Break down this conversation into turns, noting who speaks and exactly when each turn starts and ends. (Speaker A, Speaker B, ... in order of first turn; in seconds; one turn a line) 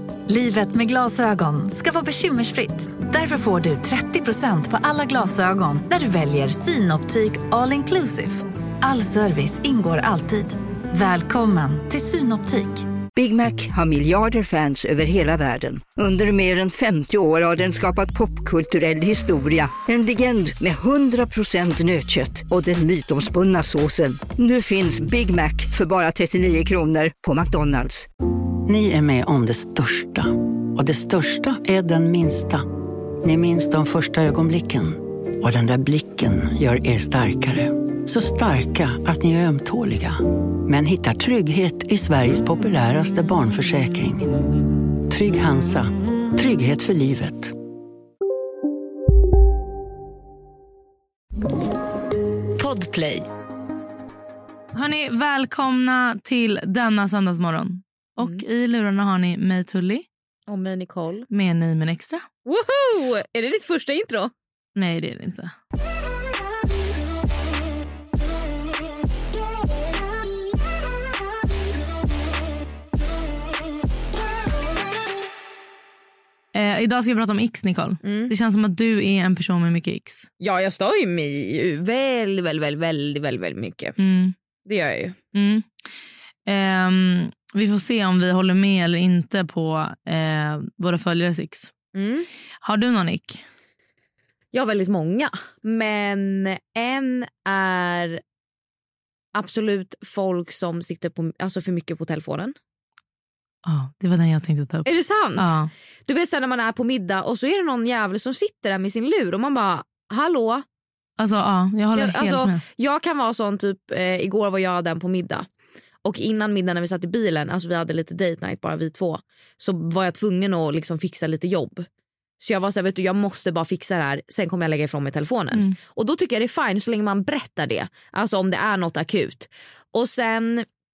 Speaker A: 0.3-12.8
Speaker B: 13.2-28.0
Speaker C: 28.6-32.6
Speaker C: 33.2-44.3
Speaker C: 45.1-47.5
Speaker D: 52.6-53.1
Speaker E: 54.7-60.0
Speaker D: 60.5-61.3
Speaker E: 61.3-62.2
Speaker D: 62.5-64.3
Speaker E: 64.7-65.5
Speaker E: 76.5-80.3
Speaker D: 78.0-78.3
Speaker D: 80.4-84.0
Speaker E: 84.0-84.3
Speaker D: 84.7-85.2
Speaker E: 85.3-85.6
Speaker E: 86.5-91.7
Speaker D: 91.9-92.3
Speaker E: 92.6-93.4
Speaker D: 94.5-98.2
Speaker D: 99.3-102.5
Speaker E: 103.6-105.7
Speaker D: 104.8-105.5
Speaker D: 106.1-110.6
Speaker E: 111.2-112.6
Speaker D: 112.0-115.4
Speaker D: 116.0-121.8
Speaker D: 122.4-130.6